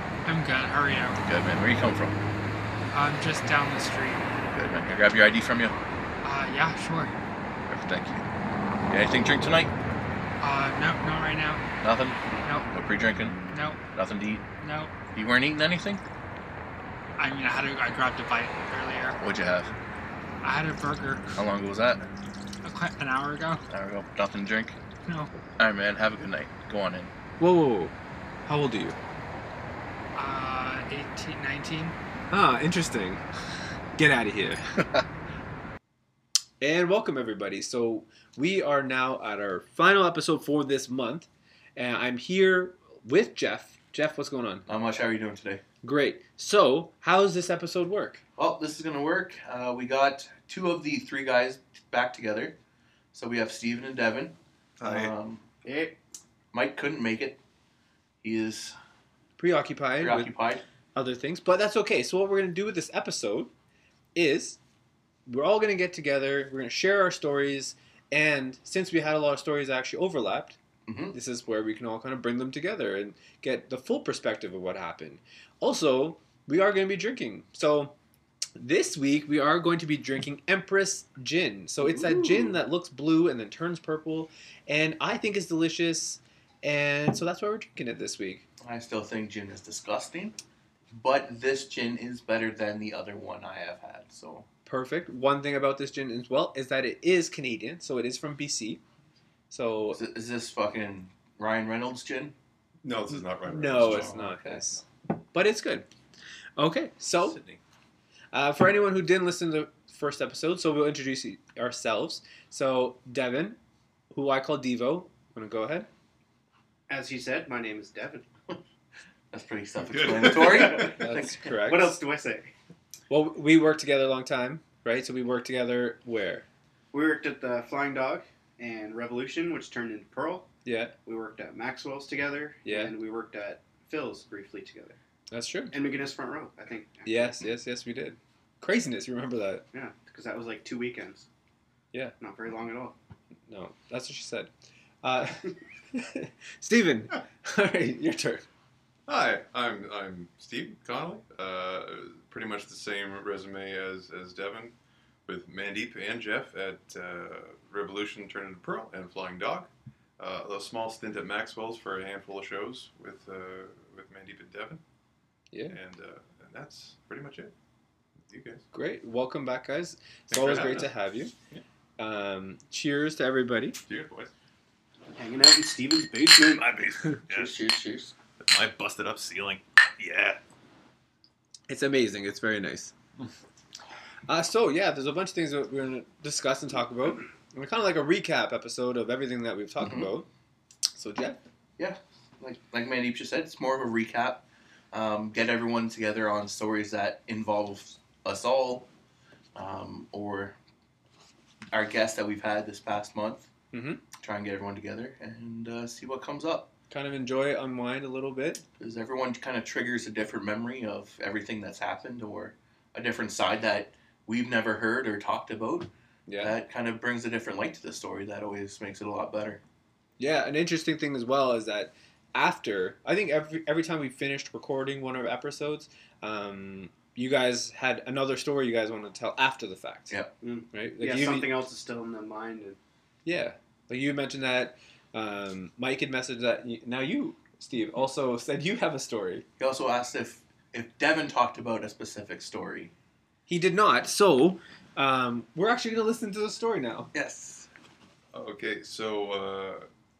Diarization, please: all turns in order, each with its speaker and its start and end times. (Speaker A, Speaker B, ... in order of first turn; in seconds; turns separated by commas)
Speaker A: 0.2-1.2, Speaker B: 1.2-2.2, Speaker A: 2.9-4.3, Speaker B: 4.5-5.8, Speaker A: 6.2-7.1, Speaker B: 7.7-8.3, Speaker B: 8.9-9.7, Speaker A: 10.4-11.6, Speaker B: 11.8-13.4, Speaker A: 12.4-12.7, Speaker A: 13.4-13.8, Speaker B: 13.9-14.4, Speaker A: 14.6-14.9, Speaker B: 15.1-16.0, Speaker A: 17.2-19.2, Speaker B: 19.2-19.7, Speaker A: 20.4-21.3, Speaker B: 21.4-22.1, Speaker A: 22.6-23.6, Speaker B: 23.7-24.8, Speaker A: 25.1-25.3, Speaker B: 25.6-27.1, Speaker C: 27.4-29.0, Speaker A: 30.1-31.9, Speaker C: 32.3-33.2, Speaker C: 34.0-34.6, Speaker C: 36.6-44.6, Speaker B: 44.7-45.6, Speaker C: 45.8-48.2, Speaker B: 48.4-52.5, Speaker B: 53.1-55.5, Speaker D: 54.8-55.1, Speaker E: 55.6-56.0, Speaker B: 56.5-57.4, Speaker B: 58.2-58.7, Speaker C: 59.4-60.3, Speaker B: 60.0-60.6, Speaker C: 60.9-63.5, Speaker C: 64.1-64.6, Speaker C: 65.2-70.5, Speaker B: 70.9-71.2, Speaker C: 71.1-77.9, Speaker C: 78.6-88.5, Speaker B: 81.8-82.6, Speaker B: 88.6-90.3, Speaker B: 90.9-94.5, Speaker C: 94.7-98.8, Speaker C: 99.5-100.0, Speaker B: 99.9-102.3, Speaker D: 102.8-104.2, Speaker C: 103.4-104.8, Speaker B: 103.8-104.7, Speaker C: 105.3-105.9, Speaker C: 106.6-107.4, Speaker B: 107.2-107.6, Speaker C: 108.3-113.6, Speaker C: 114.1-115.9, Speaker E: 116.9-118.2, Speaker B: 119.3-121.5, Speaker D: 119.9-120.9, Speaker E: 120.6-122.5, Speaker C: 120.9-122.0, Speaker C: 123.1-126.5, Speaker E: 126.9-130.5, Speaker C: 130.6-130.9, Speaker E: 131.0-135.0, Speaker C: 132.6-132.9, Speaker C: 135.3-135.8, Speaker E: 135.7-137.4, Speaker C: 137.0-139.6, Speaker E: 139.7-141.3, Speaker E: 142.2-142.9, Speaker C: 143.5-144.5, Speaker C: 145.0-148.4, Speaker D: 149.1-154.7, Speaker D: 155.2-164.8, Speaker C: 165.5-165.8, Speaker D: 165.7-167.5, Speaker D: 168.3-168.6, Speaker C: 168.7-171.3, Speaker D: 170.3-170.9, Speaker C: 172.0-173.8, Speaker D: 173.8-174.3, Speaker E: 175.1-176.7, Speaker D: 176.5-177.6, Speaker B: 177.3-178.1, Speaker D: 178.4-180.4, Speaker C: 181.7-182.9, Speaker C: 184.3-190.3, Speaker B: 189.8-190.1, Speaker C: 190.9-191.4, Speaker B: 191.8-198.9, Speaker B: 199.5-200.5, Speaker B: 201.7-203.5, Speaker C: 203.7-204.0, Speaker B: 204.2-206.7, Speaker C: 206.9-208.6, Speaker B: 208.8-219.6, Speaker C: 216.3-216.5, Speaker C: 220.2-230.2, Speaker E: 230.4-232.8, Speaker C: 230.7-231.5, Speaker C: 233.2-239.4, Speaker B: 239.6-242.9, Speaker C: 243.5-247.1, Speaker B: 247.1-247.7, Speaker D: 248.3-249.8